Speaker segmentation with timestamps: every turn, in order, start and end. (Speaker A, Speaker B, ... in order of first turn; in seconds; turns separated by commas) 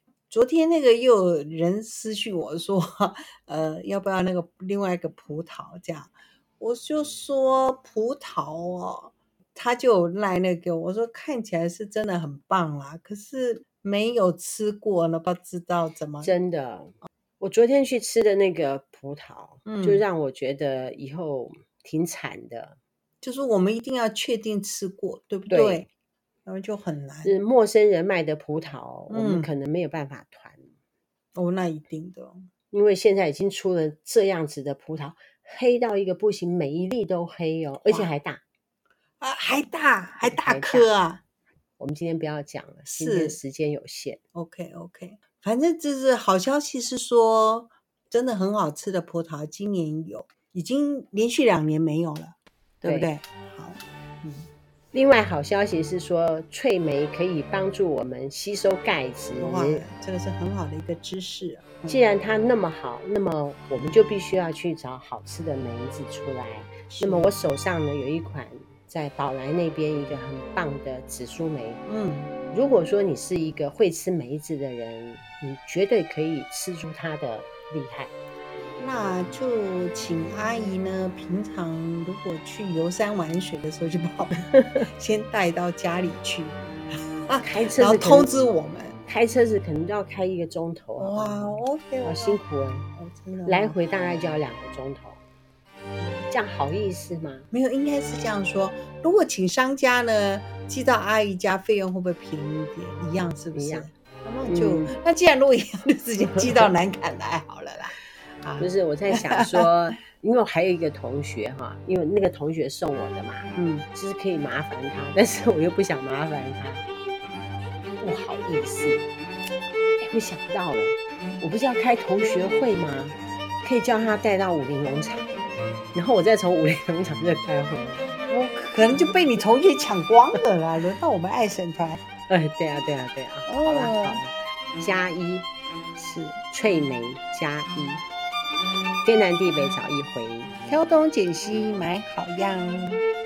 Speaker A: 0.3-16.3, Speaker B: 16.2-22.8, Speaker A: 19.6-20.0, Speaker A: 23.2-25.9, Speaker B: 25.5-25.9, Speaker A: 26.4-27.4, Speaker B: 27.2-30.7, Speaker A: 29.1-29.5, Speaker A: 31.3-32.5, Speaker B: 32.7-38.4, Speaker A: 37.9-38.1, Speaker A: 39.2-41.2, Speaker B: 40.2-40.9, Speaker B: 41.8-44.2, Speaker A: 42.9-43.4, Speaker A: 44.3-54.5, Speaker B: 52.8-53.1, Speaker B: 54.9-59.8, Speaker A: 59.4-61.8, Speaker B: 61.8-71.8, Speaker A: 66.9-67.3, Speaker A: 71.8-72.3, Speaker B: 72.5-78.1, Speaker A: 78.8-89.0, Speaker B: 84.5-84.8, Speaker B: 87.4-88.3, Speaker B: 89.0-92.9, Speaker A: 91.0-92.4, Speaker A: 93.0-93.8, Speaker B: 93.5-95.2, Speaker B: 96.2-97.5, Speaker A: 97.5-109.7, Speaker B: 103.5-103.9, Speaker B: 104.5-104.9, Speaker B: 106.2-106.7, Speaker B: 108.6-116.8, Speaker A: 113.5-113.8, Speaker B: 118.0-119.0, Speaker B: 120.0-125.3, Speaker B: 125.9-128.1, Speaker A: 128.3-132.0, Speaker B: 132.3-135.5, Speaker A: 133.5-134.2, Speaker A: 135.9-136.4, Speaker B: 136.5-138.0, Speaker B: 139.0-140.6, Speaker A: 140.7-143.0